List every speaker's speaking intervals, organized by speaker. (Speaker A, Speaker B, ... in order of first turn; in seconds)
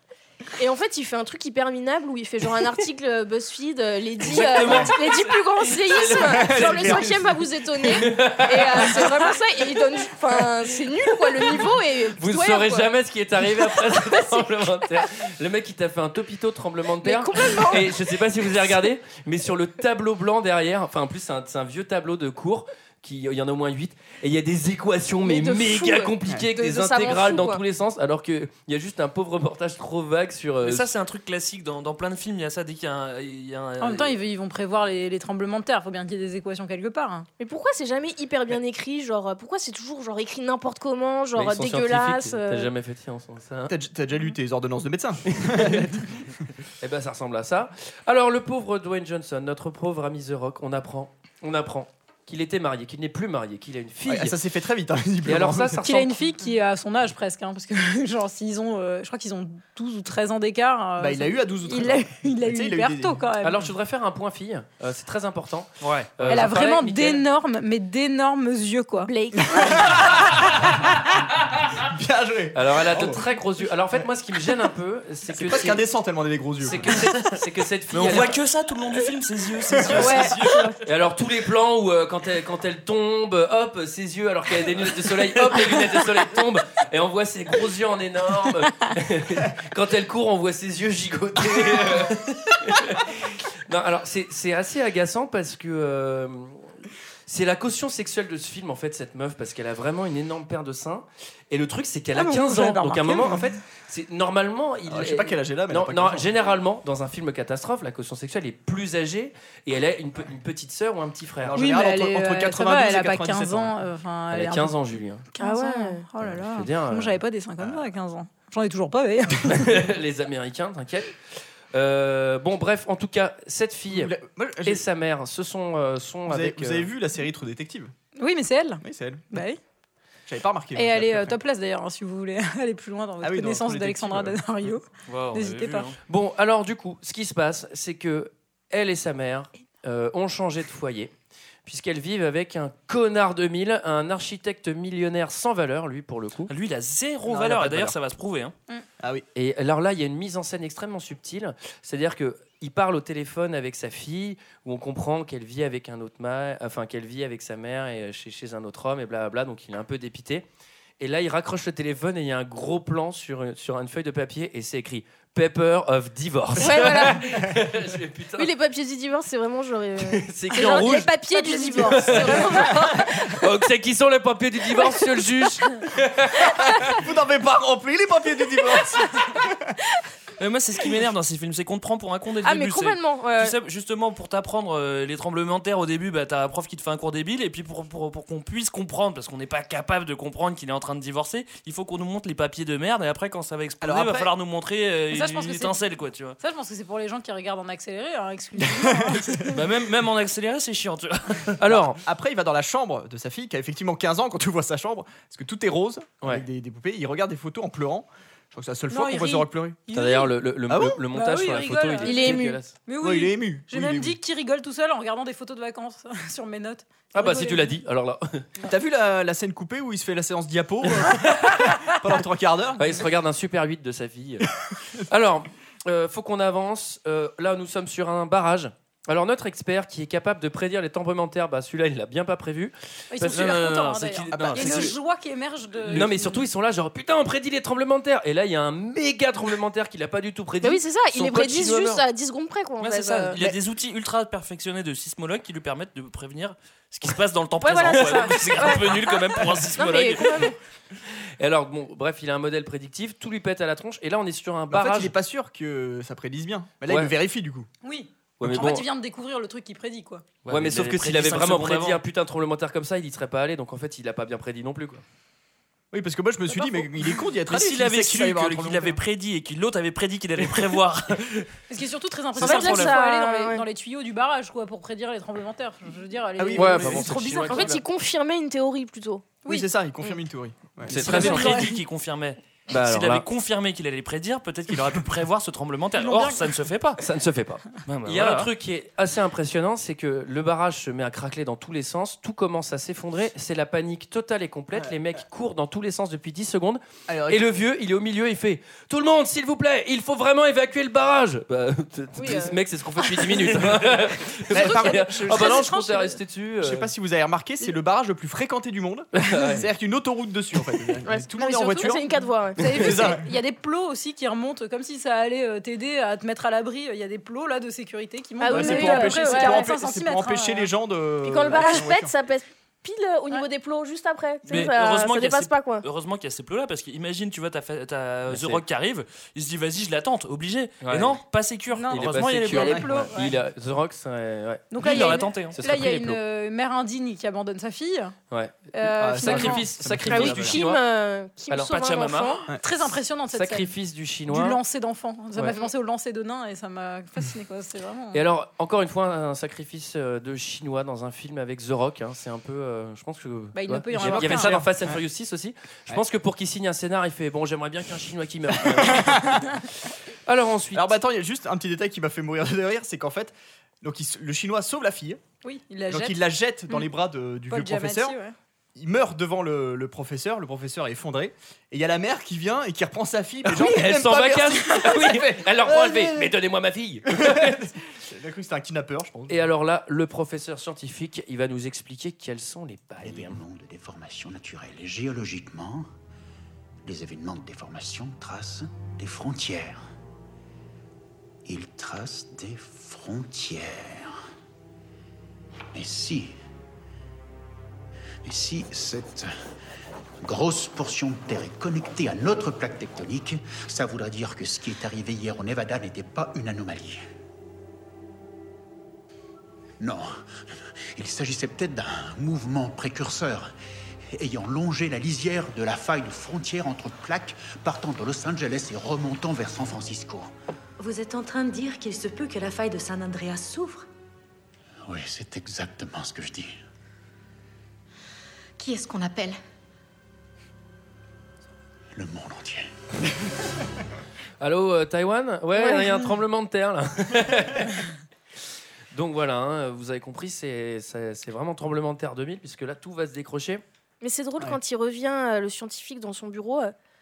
Speaker A: 0.6-14.7, 17.0-18.0, 25.2-27.6, 37.4-42.7, 69.0-70.1, 115.4-116.0, 166.6-167.6, 168.4-173.4, 182.4-183.5, 212.0-212.6, 240.6-243.4, 247.6-250.6, 272.4-273.6, 277.5-279.4, 302.1-302.6, 311.1-313.2, 318.4-319.7, 321.2-325.8, 340.1-342.5, 435.6-436.0, 444.0-446.7
Speaker B: 4.2-5.3, 30.6-34.2, 65.8-66.1, 77.9-80.8, 135.1-135.9, 146.5-148.5, 180.4-196.4, 199.5-201.6, 233.3-235.0, 242.8-250.5, 260.4-262.0, 267.5-271.5, 272.4-272.9, 280.9-287.0, 287.9-288.5, 324.5-333.1, 334.8-335.6, 341.7-342.4
Speaker C: 5.8-9.4, 12.2-30.9, 41.3-43.8, 45.3-46.1, 46.8-54.4, 55.2-56.2, 63.4-67.2, 72.5-75.8, 76.6-78.4, 80.8-96.7, 97.3-111.6, 114.3-115.2, 116.2-117.2, 119.5-121.1, 121.7-124.1, 124.6-126.9, 136.1-141.1, 141.7-146.5, 149.3-160.4, 161.0-168.5, 170.0-171.1, 171.8-176.9, 201.6-202.0, 209.9-212.7, 217.1-218.5, 222.8-234.9, 235.9-242.0, 248.1-248.6, 251.4-255.1, 256.9-257.1, 258.4-258.9, 260.5-265.0, 276.6-277.8, 280.9-281.6, 282.7-283.2, 287.0-306.9, 309.1-309.6, 328.3-328.6, 330.8-331.2, 331.9-336.2, 338.3-340.8, 343.3-344.6, 348.1-359.5, 360.2-360.9, 373.4-377.7, 379.3-383.4, 434.4-437.8, 438.9-443.6
Speaker D: 6.1-7.3, 43.7-46.3, 54.0-55.8, 61.0-63.2, 69.4-71.0, 71.8-73.2, 75.3-77.0, 79.8-80.2, 104.9-106.3, 111.4-113.8, 123.9-124.8, 126.3-127.9, 128.8-129.4, 130.3-131.4, 133.2-134.4, 147.3-147.9, 149.0-149.2, 172.3-172.6, 176.8-179.8, 193.8-194.3, 198.6-199.5, 201.6-209.8, 210.7-211.0, 213.0-214.2, 218.6-223.0, 234.3-234.9, 254.7-257.7, 265.9-269.0, 276.4-277.1, 279.5-281.2, 297.1-297.5, 304.5-305.6, 306.6-312.0, 312.7-313.3, 318.5-322.1, 339.0-340.6, 354.0-355.0, 358.6-359.4, 360.7-365.2, 365.9-368.1, 368.8-376.3, 377.1-379.4
Speaker E: 33.8-37.3, 55.8-63.7, 66.2-69.1, 102.1-103.5, 111.5-114.8, 115.3-119.9, 128.2-129.6, 130.8-135.9, 170.6-172.6, 195.1-195.8, 196.4-199.5, 208.9-210.3, 211.1-217.8, 233.1-236.4, 257.8-260.3, 266.5-266.9, 271.7-277.7, 281.0-281.8, 286.0-286.4, 304.5-306.2, 312.6-320.7, 331.7-333.4, 334.7-338.1, 338.7-339.7, 342.5-343.7, 344.3-348.2, 353.5-354.6, 365.4-366.9, 367.5-368.3
Speaker F: 383.0-385.9, 386.8-389.8, 391.5-394.2, 395.7-396.3, 398.2-399.3, 400.2-407.0, 409.8-410.1, 411.0-413.5, 414.1-420.3, 424.9-426.5, 431.9-432.7
Speaker G: 420.8-423.9, 428.6-429.4